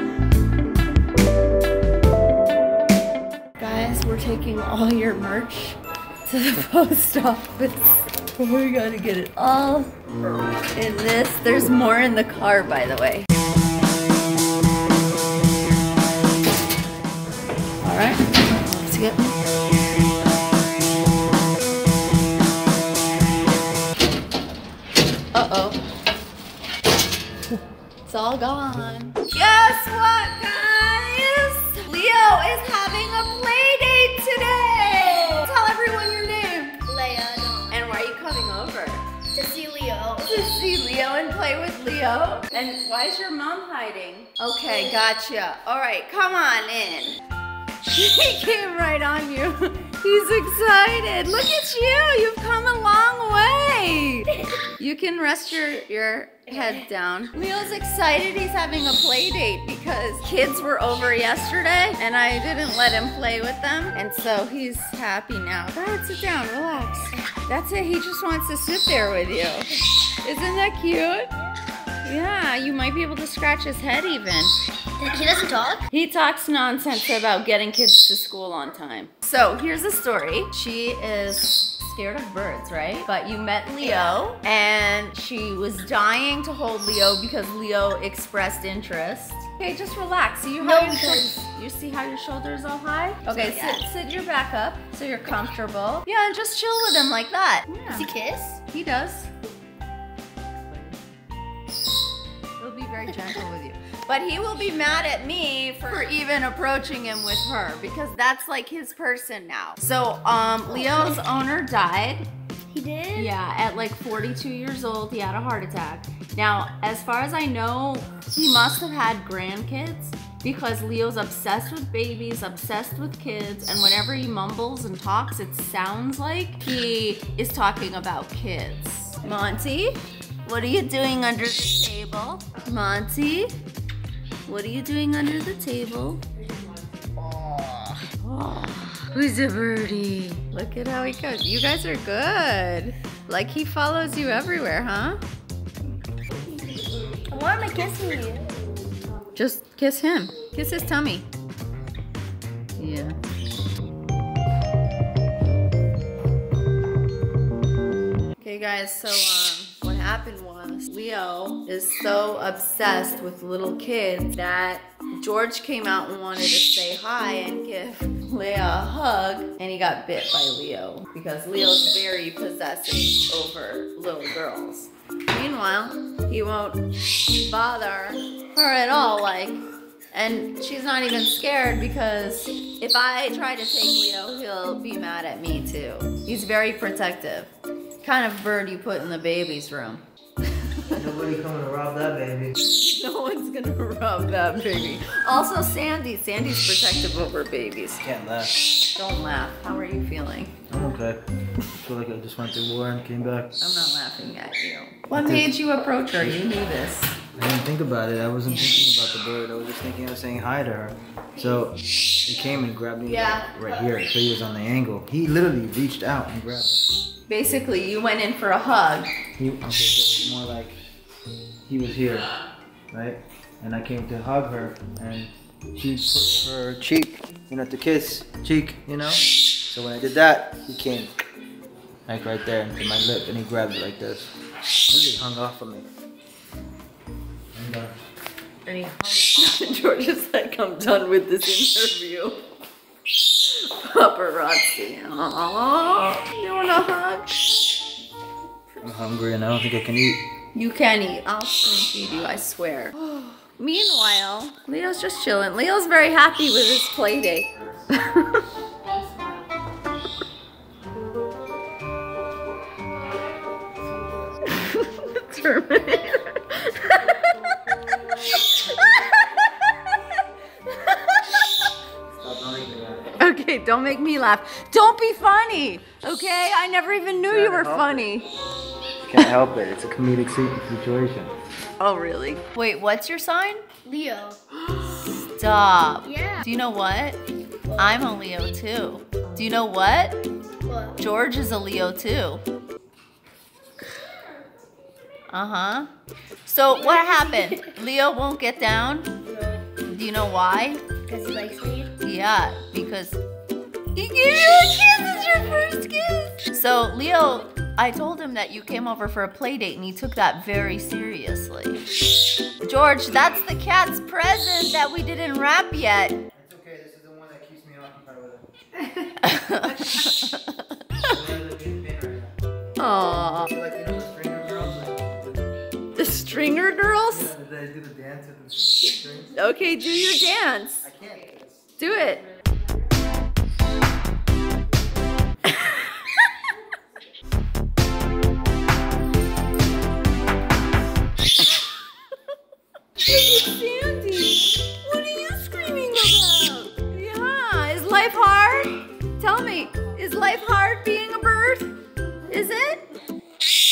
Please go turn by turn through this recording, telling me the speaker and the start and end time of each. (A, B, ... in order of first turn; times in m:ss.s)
0:03.6-0:09.9 A
0:10.7-0:13.3 A
0:17.8-0:19.3 A
0:25.3-0:25.8 A
0:28.1-0:36.8 A
0:36.9-0:37.8 B
0:37.7-0:39.0 A
0:39.3-0:40.4 B
0:40.3-0:47.2 A
0:47.8-1:11.3 A
1:12.0-1:14.5 A
1:15.0-1:15.9 B
1:15.9-1:39.3 A
1:23.8-1:24.2 B
1:30.6-1:31.4 B
1:33.3-1:33.8 B
1:37.9-1:38.6 B
1:42.6-1:52.3 A
1:50.7-1:51.1 B
1:52.7-1:53.3 B
1:53.2-2:13.6 A
2:14.5-2:16.2 A
2:17.2-2:18.0 B
2:18.1-2:25.2 A
2:26.7-2:28.5 B
2:29.4-2:31.3 A
2:32.8-2:33.2 A
2:38.4-2:56.8 A
2:57.3-2:59.6 A
3:00.1-3:11.0 A
3:10.9-3:12.6 C
3:12.6-3:18.0 A
3:18.0-3:18.6 C
3:19.0-3:20.5 A
3:20.7-3:21.2 C
3:21.8-3:23.6 C
3:23.6-3:27.2 A
3:25.1-3:25.5 C
3:26.2-3:26.4 C
3:27.4-3:36.8 C
3:28.5-3:28.8 A
3:33.1-3:33.5 A
3:37.3-3:39.1 A
3:39.4-3:40.8 C
3:41.7-3:42.3 C
3:42.9-3:51.1 C
3:52.1-3:54.4 C
3:54.9-3:55.9 C
3:57.5-3:57.9 C
3:58.7-4:02.4 A
4:03.4-4:07.7 A
4:08.8-4:10.2 C
4:10.6-4:18.4 A
4:24.5-4:31.5 A
4:32.1-4:33.2 C
4:33.2-4:38.3 A
4:37.2-4:38.1 C
4:39.0-4:41.3 C
4:41.8-4:43.6 A
4:43.8-4:44.4 B
4:44.7-4:47.2 A
4:46.0-4:46.4 B
4:47.7-4:48.1 B
4:47.8-4:50.2 A
4:50.6-4:51.0 B
4:51.0-4:52.4 A
4:55.3-4:55.9 A
4:56.4-4:59.1 A
4:56.8-4:57.7 B
4:59.2-4:59.7 B
4:59.8-5:00.8 A
5:01.1-5:01.9 B
5:02.0-5:03.2 A
5:04.0-5:11.8 A
5:12.6-5:16.2 A
5:16.3-5:18.5 C
5:19.2-5:21.2 A
5:21.1-5:22.4 C
5:22.8-5:23.5 A
5:23.3-5:25.5 C
5:26.0-5:27.3 A
5:27.1-5:29.4 C
5:29.4-5:30.8 A
5:30.8-5:31.9 C
5:31.8-5:32.3 A
5:35.4-5:36.3 A
5:43.0-5:51.7 A
5:52.3-5:52.9 A